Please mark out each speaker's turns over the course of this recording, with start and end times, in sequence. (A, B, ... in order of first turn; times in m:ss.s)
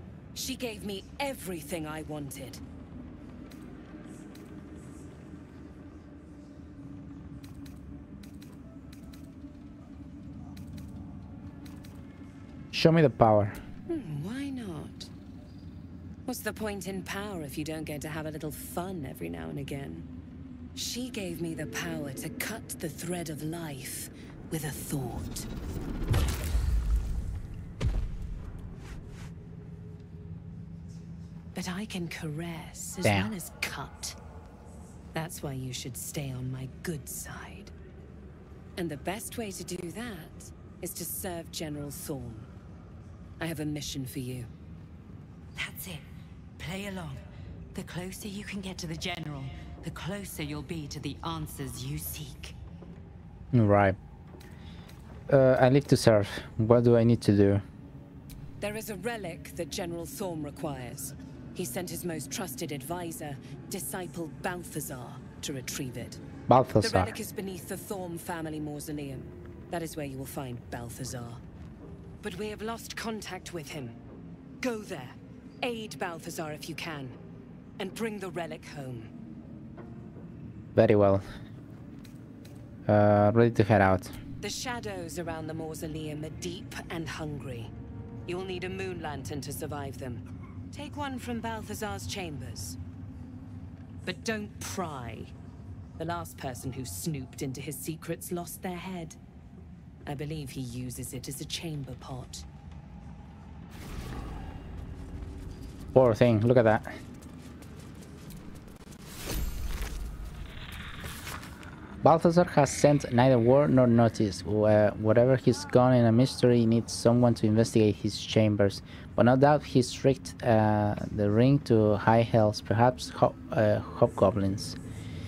0:00.3-0:02.6 A
0:12.7-0:13.6 B
0:13.9-0:15.1 A
0:16.3-0:20.1 A
0:20.7-0:25.5 A
0:31.5-0:34.1 A
0:33.0-0:33.3 B
0:35.1-0:37.7 A
0:38.8-0:42.5 A
0:43.4-0:44.5 A
0:45.6-0:46.0 C
0:46.6-0:47.2 C
0:47.7-0:52.5 C
0:53.5-0:54.0 B
0:55.3-0:57.6 B
0:58.6-1:06.2 A
1:06.5-1:07.1 B
1:06.8-1:11.4 A
1:12.2-1:14.0 A
1:14.6-1:17.2 A
1:17.8-1:19.1 A
1:20.7-1:21.2 B
1:22.9-1:24.1 B
1:24.4-1:27.7 A
1:28.3-1:32.8 A
1:34.0-1:35.3 A
1:36.0-1:39.2 A
1:40.0-1:42.4 A
1:45.9-1:47.0 B
1:52.0-2:04.8 B